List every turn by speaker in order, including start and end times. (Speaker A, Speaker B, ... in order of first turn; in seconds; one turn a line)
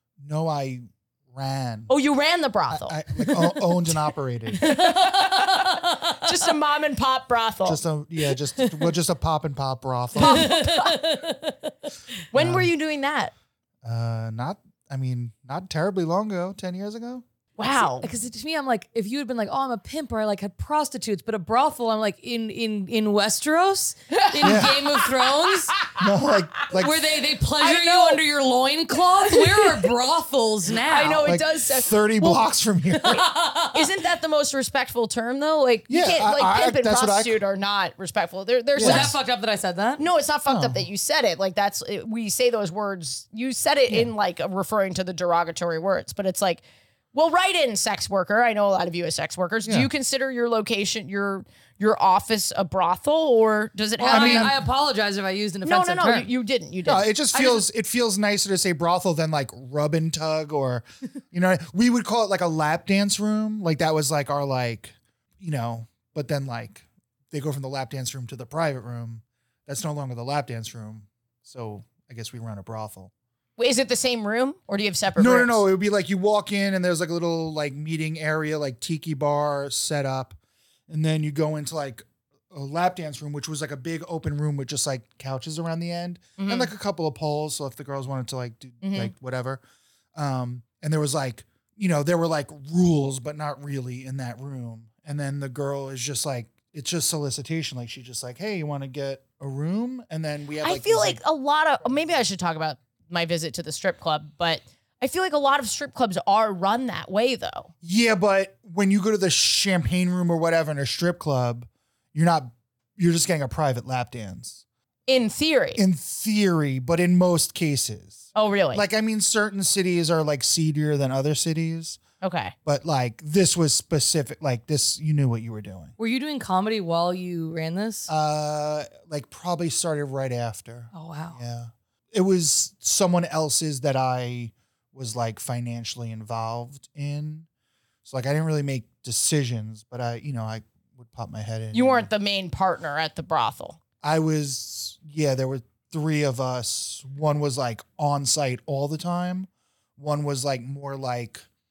Speaker A: 0.2-1.9
Speaker B: 1.9-3.7
Speaker A: 2.7-4.8
Speaker B: 4.6-7.8
Speaker C: 5.0-5.9
Speaker A: 7.7-10.6
Speaker B: 10.2-11.1
Speaker C: 10.2-11.7
Speaker B: 12.3-13.3
Speaker A: 12.3-12.7
Speaker A: 13.8-17.2
Speaker B: 17.6-18.1
Speaker C: 17.8-25.8
Speaker B: 24.1-25.1
Speaker A: 24.4-24.8
Speaker A: 25.9-27.0
Speaker C: 26.8-31.3
Speaker B: 27.6-28.2
Speaker B: 29.3-29.9
Speaker B: 30.9-32.4
Speaker A: 31.2-33.2
Speaker C: 33.1-33.8
Speaker B: 33.7-39.2
Speaker A: 35.9-37.4
Speaker A: 38.8-39.2
Speaker C: 38.8-40.0
Speaker B: 40.0-46.6
Speaker A: 40.5-40.8
Speaker B: 47.1-54.5
Speaker A: 49.6-49.9
Speaker C: 54.0-56.3
Speaker A: 54.1-54.6
Speaker B: 55.6-57.5
Speaker A: 56.9-73.1
Speaker B: 73.6-75.6
Speaker A: 75.2-80.4
Speaker A: 80.9-89.6
Speaker B: 86.4-86.7
Speaker B: 88.8-89.1
Speaker A: 90.2-101.2
Speaker B: 100.6-107.7
Speaker A: 107.8-114.6
Speaker B: 115.1-115.8
Speaker A: 115.8-122.0
Speaker B: 118.3-118.8
Speaker B: 122.2-122.5
Speaker A: 122.7-125.9
Speaker C: 126.0-128.1
Speaker A: 128.1-137.5
Speaker C: 130.9-131.4
Speaker A: 138.1-142.1
Speaker B: 141.7-143.8
Speaker A: 144.0-151.4